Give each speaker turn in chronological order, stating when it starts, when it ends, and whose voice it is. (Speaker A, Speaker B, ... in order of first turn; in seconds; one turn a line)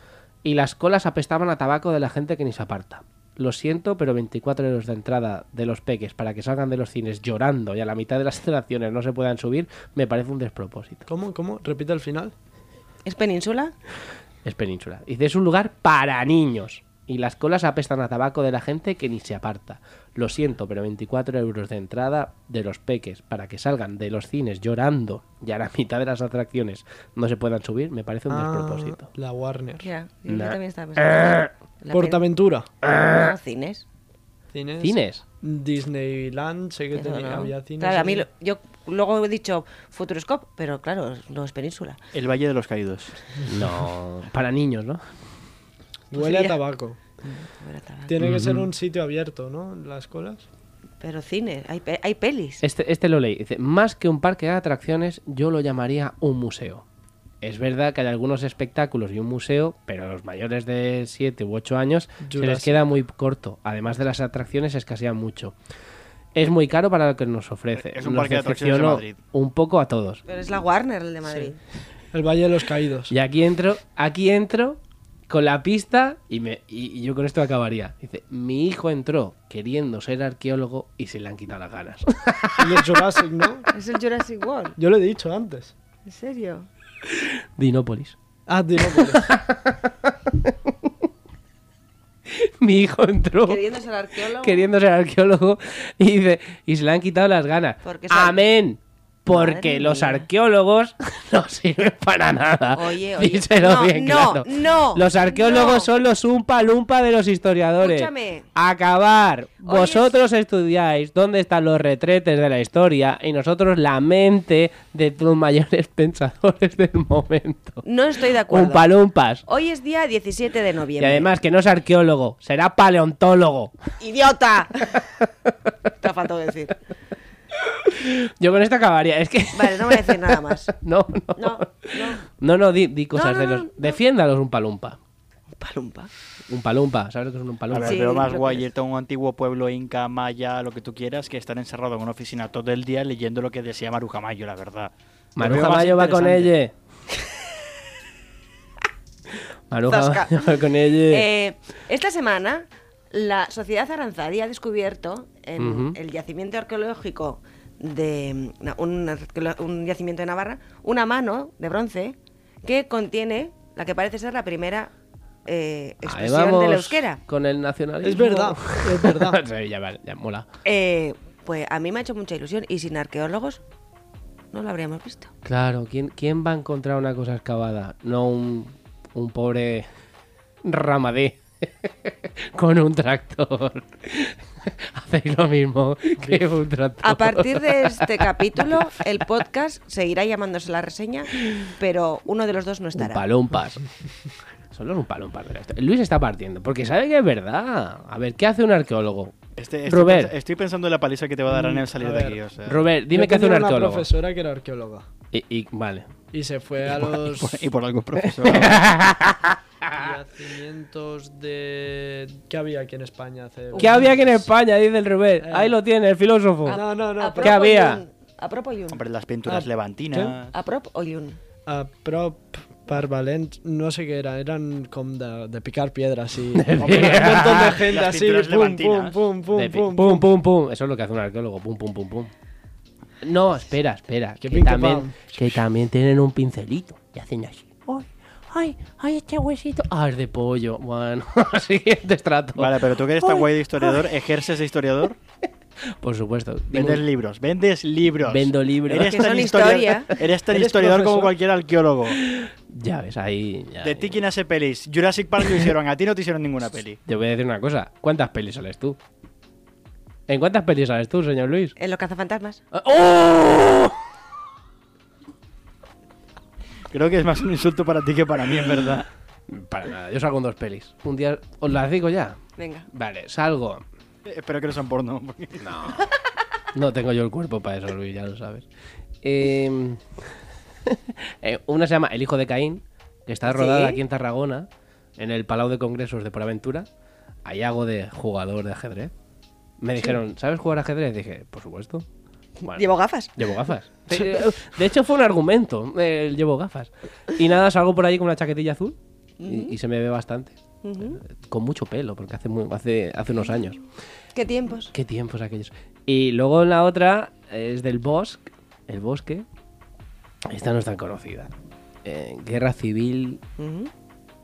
Speaker A: 0.4-11.1
Speaker B: 11.1-12.3
Speaker C: 13.1-13.7
Speaker A: 14.4-29.1
Speaker B: 28.3-29.9
Speaker C: 29.8-32.2
Speaker A: 30.3-31.5
Speaker B: 31.9-32.7
Speaker A: 32.8-33.3
Speaker C: 32.9-33.9
Speaker B: 34.5-38.3
Speaker A: 34.8-35.2
Speaker C: 37.0-42.0
Speaker D: 42.1-43.2
Speaker A: 43.5-45.1
Speaker B: 46.1-47.0
Speaker C: 46.1-46.6
Speaker C: 47.5-48.1
Speaker B: 48.1-50.5
Speaker A: 48.2-48.7
Speaker C: 51.0-52.6
Speaker A: 52.6-56.9
Speaker A: 57.4-65.5
Speaker B: 62.2-62.8
Speaker A: 66.3-70.2
Speaker D: 67.8-69.2
Speaker C: 70.3-71.6
Speaker B: 72.1-73.1
Speaker A: 73.1-83.0
Speaker B: 82.6-83.7
Speaker C: 83.7-84.8
Speaker B: 84.8-85.7
Speaker C: 86.1-86.7
Speaker A: 87.0-88.2
Speaker B: 88.5-89.3
Speaker A: 88.8-91.0
Speaker A: 92.3-93.6
Speaker C: 93.5-94.7
Speaker A: 94.4-117.8
Speaker C: 97.8-98.4
Speaker C: 99.3-100.3
Speaker C: 102.7-105.9
Speaker C: 107.8-108.5
Speaker C: 109.6-110.2
Speaker C: 117.8-118.9
Speaker A: 118.4-119.4
Speaker C: 119.5-121.3
Speaker A: 121.0-123.8
Speaker C: 124.0-125.1
Speaker C: 126.0-126.8
Speaker A: 127.6-135.0
Speaker C: 129.5-130.7
Speaker C: 131.4-132.2
Speaker C: 133.1-134.0
Speaker C: 135.6-136.1
Speaker A: 136.5-138.0
Speaker D: 137.7-146.5
Speaker C: 137.8-138.7
Speaker A: 145.4-146.7
Speaker A: 149.7-151.3
Speaker C: 149.9-164.9
Speaker A: 155.6-156.0
Speaker C: 165.4-167.2
Speaker A: 166.1-170.5
Speaker B: 168.0-169.4
Speaker C: 170.6-173.6
Speaker C: 174.5-175.3
Speaker A: 175.4-179.9
Speaker A: 180.6-189.2
Speaker C: 187.0-193.2
Speaker A: 193.0-193.8
Speaker A: 194.7-200.3
Speaker D: 199.6-202.9
Speaker B: 201.5-202.4
Speaker A: 202.7-204.1
Speaker B: 203.1-205.1
Speaker A: 205.3-206.1
Speaker B: 206.3-207.6
Speaker D: 207.0-208.8
Speaker A: 208.2-210.1
Speaker B: 209.9-214.4
Speaker C: 213.8-214.1
Speaker A: 213.8-216.8
Speaker B: 215.4-215.8
Speaker C: 216.7-219.0
Speaker B: 216.7-217.6
Speaker A: 217.4-218.0
Speaker D: 218.9-220.5
Speaker B: 219.4-220.4
Speaker C: 220.5-221.4
Speaker B: 221.7-230.3
Speaker A: 226.5-227.8
Speaker D: 226.8-229.2
Speaker A: 229.5-232.3
Speaker A: 233.2-242.8
Speaker B: 234.4-235.6
Speaker D: 242.6-245.2
Speaker A: 246.0-247.0
Speaker D: 246.7-252.2
Speaker A: 248.2-249.5
Speaker C: 249.1-250.1
Speaker B: 250.5-251.3
Speaker A: 252.2-254.2
Speaker D: 253.8-257.0
Speaker A: 257.1-259.0
Speaker A: 260.3-261.8
Speaker C: 261.8-262.6
Speaker A: 262.7-264.0
Speaker D: 266.9-269.1
Speaker A: 269.5-272.4
Speaker C: 272.6-272.9
Speaker A: 272.9-273.8
Speaker D: 274.3-275.8
Speaker A: 275.6-276.1
Speaker A: 276.7-278.7
Speaker A: 279.2-280.3
Speaker A: 280.9-286.9
Speaker C: 283.4-284.0
Speaker A: 287.4-289.1
Speaker A: 289.8-292.1
Speaker C: 292.6-293.4
Speaker A: 292.6-300.5
Speaker C: 299.4-299.7
Speaker C: 300.8-301.2
Speaker A: 301.1-303.8
Speaker C: 304.4-304.9
Speaker A: 304.9-309.5
Speaker A: 310.5-311.5
Speaker A: 312.0-313.4
Speaker C: 313.6-313.9